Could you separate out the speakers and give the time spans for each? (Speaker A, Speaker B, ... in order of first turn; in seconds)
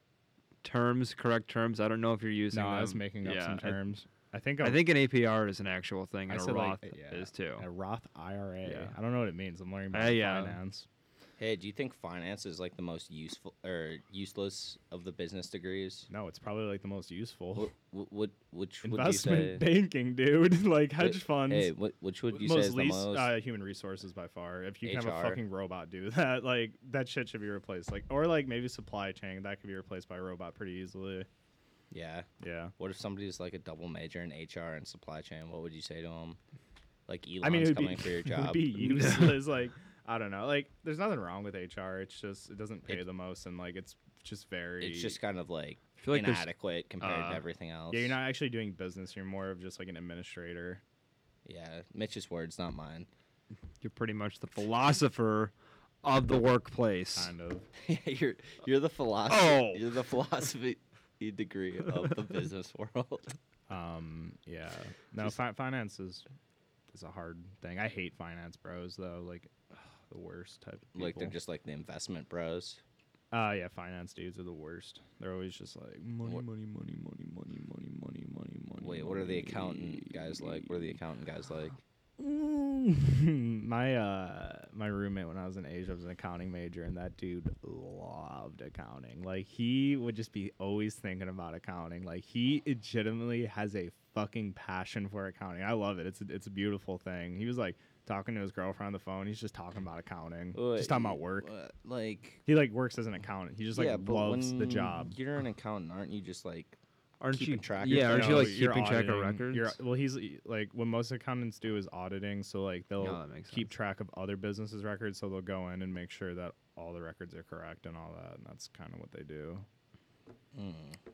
Speaker A: 0.6-3.8, 4.6-7.6, 8.6-8.9, 9.9-10.6, 46.0-46.5, 47.0-47.4, 53.8-55.5, 56.0-57.3, 59.3-59.8, 107.2-109.7, 113.0-113.7
Speaker B: 2.5-4.8, 6.3-10.9, 16.1-17.7, 18.8-21.7, 22.3-31.3, 32.4-32.7, 37.4-45.2, 47.9-50.8, 57.1-57.7, 63.7-66.2, 66.9-71.4, 73.3-80.4, 82.2-101.5, 102.5-105.1, 107.8-119.7
Speaker C: 11.4-16.1, 17.5-19.6, 21.0-23.3, 24.8-25.4, 31.9-36.4, 37.1-39.1, 44.8-48.1, 51.4-53.1, 57.8-63.4, 70.9-72.8, 78.8-81.8, 100.5-102.4, 103.7-106.8, 107.3-108.5, 120.5-121.0